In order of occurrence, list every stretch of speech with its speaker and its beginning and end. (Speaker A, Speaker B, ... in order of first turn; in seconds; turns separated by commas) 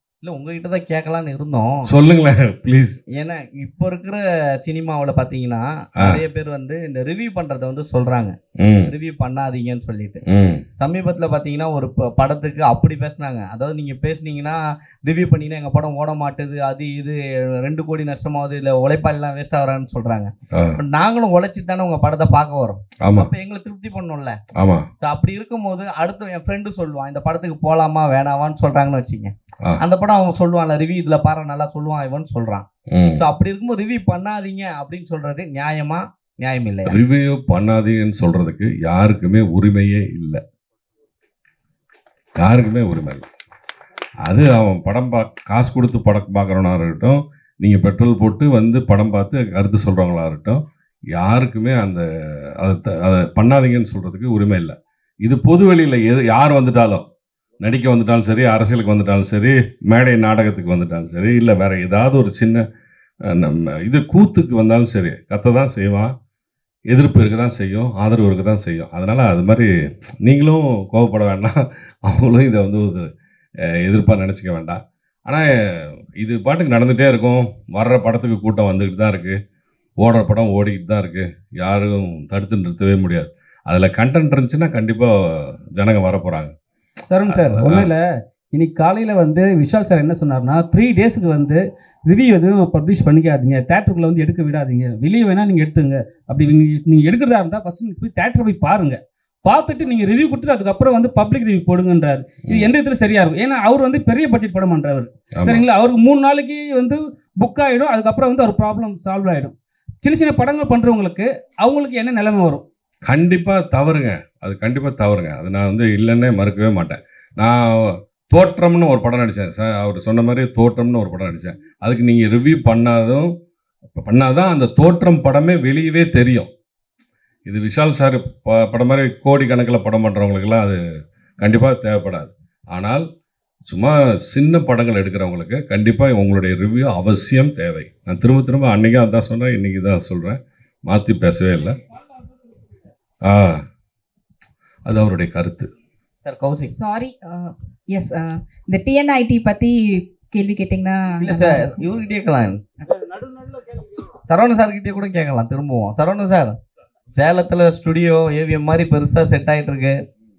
Speaker A: 0.2-1.9, Speaker B: 1.8-3.0, Speaker A: 3.1-10.2, Speaker B: 6.0-6.2, Speaker B: 8.6-8.9, Speaker B: 10.2-10.6, Speaker A: 10.8-24.4, Speaker B: 20.5-20.8, Speaker B: 23.0-23.3, Speaker B: 24.5-24.9, Speaker A: 25.0-32.6, Speaker B: 32.9-33.2, Speaker A: 33.2-37.0, Speaker B: 36.9-40.4, Speaker B: 42.4-43.3, Speaker B: 44.2-50.6, Speaker B: 51.1-52.0, Speaker B: 52.6-57.0, Speaker B: 57.6-62.6, Speaker B: 63.3-66.1, Speaker B: 66.9-69.7, Speaker B: 70.2-73.1, Speaker B: 73.8-79.4, Speaker B: 80.0-86.5, Speaker C: 87.1-88.0, Speaker B: 87.3-87.9, Speaker C: 88.5-112.6, Speaker B: 105.3-105.6, Speaker B: 113.0-123.3, Speaker B: 123.9-126.5, Speaker B: 127.5-130.8, Speaker B: 131.4-133.1, Speaker B: 133.7-141.8, Speaker B: 143.2-143.6, Speaker B: 144.8-145.7, Speaker A: 146.2-146.7, Speaker D: 146.7-151.7, Speaker A: 151.2-153.0, Speaker A: 154.3-156.6, Speaker A: 157.1-160.0